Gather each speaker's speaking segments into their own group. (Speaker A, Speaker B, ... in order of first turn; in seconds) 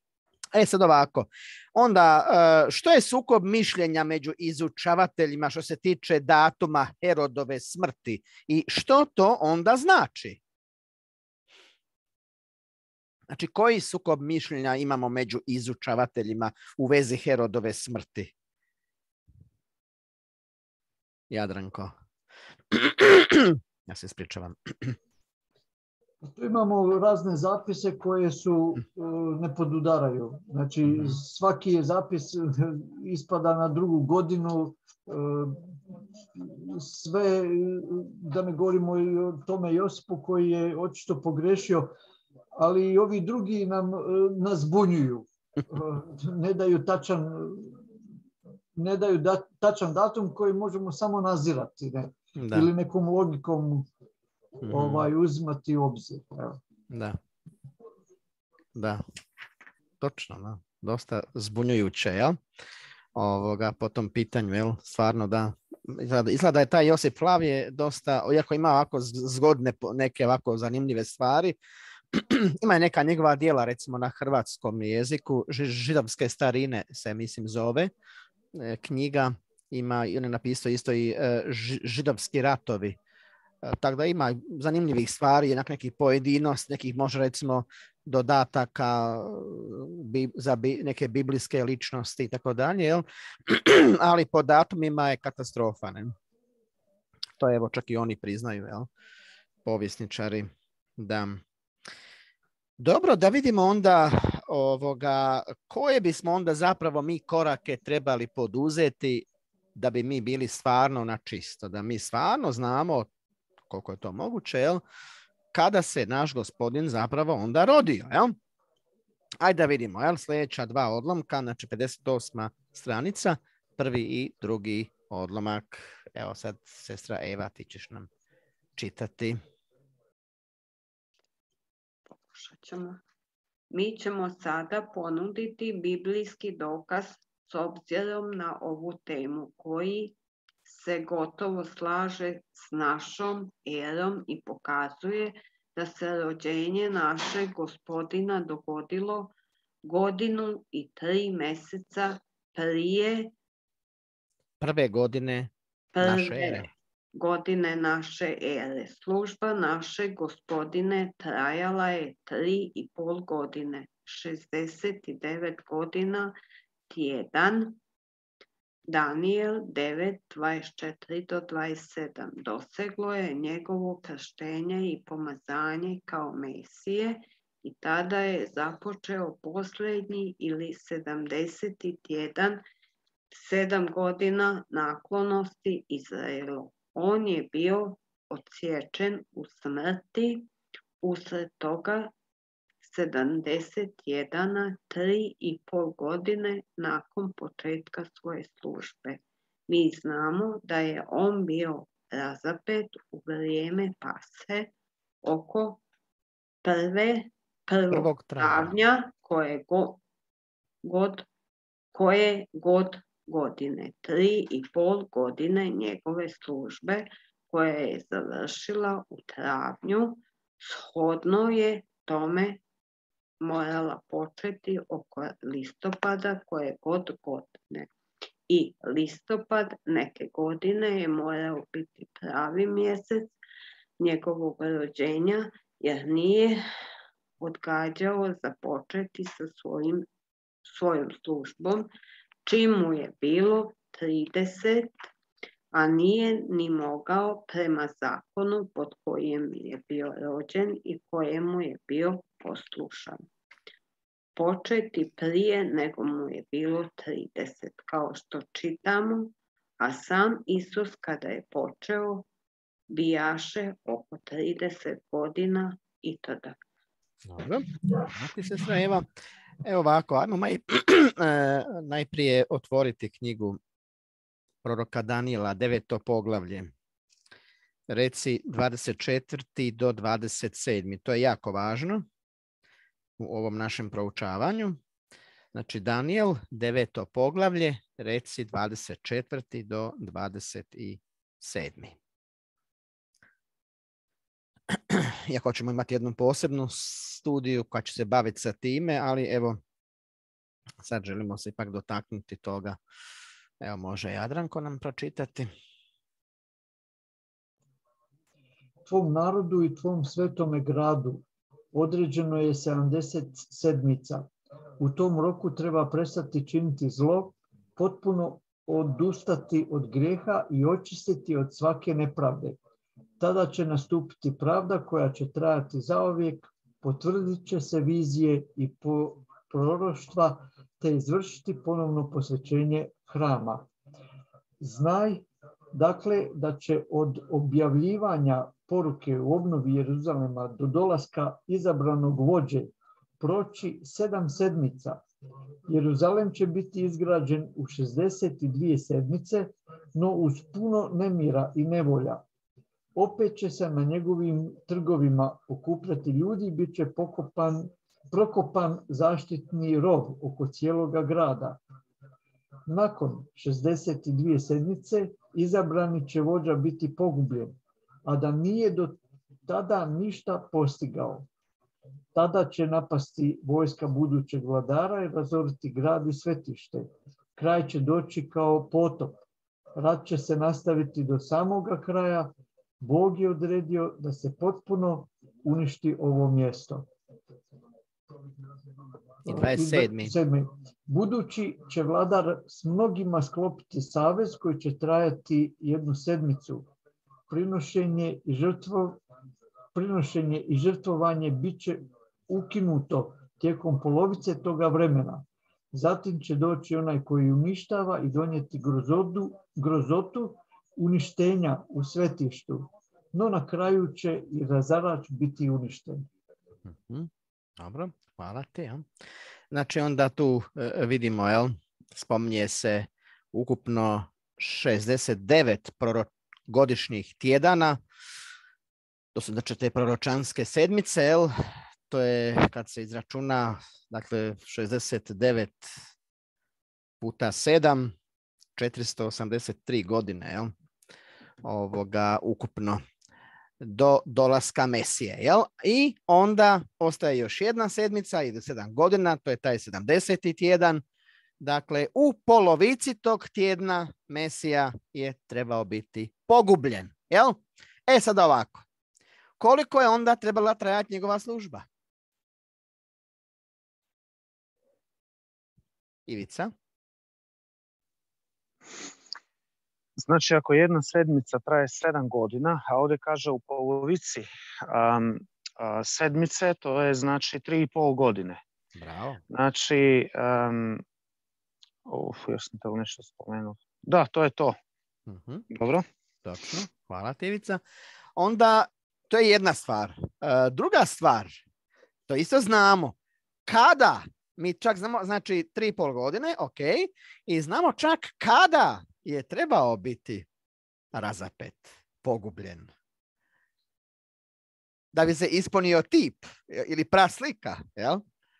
Speaker A: 0.5-10.4, 13.3-18.3, 21.3-21.9, 22.7-24.9, 30.9-31.2, 52.4-52.7, 54.6-55.1, 56.9-57.2, 58.7-59.0, 60.0-62.4, 63.1-71.6, 72.1-77.9, 78.5-83.0, 83.6-96.2, 97.4-98.9, 99.6-101.4, 102.8-113.1, 113.7-114.8, 115.5-118.3, 119.4-128.1, 128.8-129.4, 154.6-156.7, 207.9-208.7, 267.2-269.1, 269.6-273.6, 274.6-276.7, 277.9-282.0, 283.2-284.8, 285.5-291.9, 294.7-299.6, 300.8-302.8, 303.6-305.5, 389.2-390.1, 416.7-418.9, 419.5-427.8, 429.1-431.3, 431.9-435.7, 437.0-437.9, 438.6-440.5, 441.4-442.8, 443.6-450.8, 451.4-458.6, 459.4-461.6, 466.1-466.5, 478.8-479.2, 485.1-485.4, 486.2-487.6, 488.1-491.4, 492.1-492.9, 493.5-500.2, 500.9-502.7, 504.9-508.0
Speaker B: 26.2-35.8, 36.3-41.9, 42.6-47.9, 48.8-53.9, 54.6-56.6, 308.9-322.6, 323.2-333.7, 334.6-345.0, 345.7-352.2, 352.9-361.6, 362.7-367.6, 368.1-371.3, 372.1-379.2, 379.8-386.9, 389.2-396.7, 397.3-399.0, 399.7-416.1
Speaker C: 132.2-133.0, 133.7-140.1, 140.7-149.3, 149.8-153.3, 155.9-166.3, 166.9-167.8, 168.9-182.6, 183.3-190.5, 191.0-192.1, 192.8-204.7, 205.2-205.8, 206.6-210.0, 210.8-211.3, 211.9-222.6, 223.4-227.9, 228.5-233.3, 234.0-236.6, 237.4-240.1, 240.7-241.9, 242.4-244.9, 245.7-253.2, 254.3-262.3, 262.9-266.6
Speaker D: 470.0-478.4, 479.3-480.8, 481.8-484.5, 485.5-485.8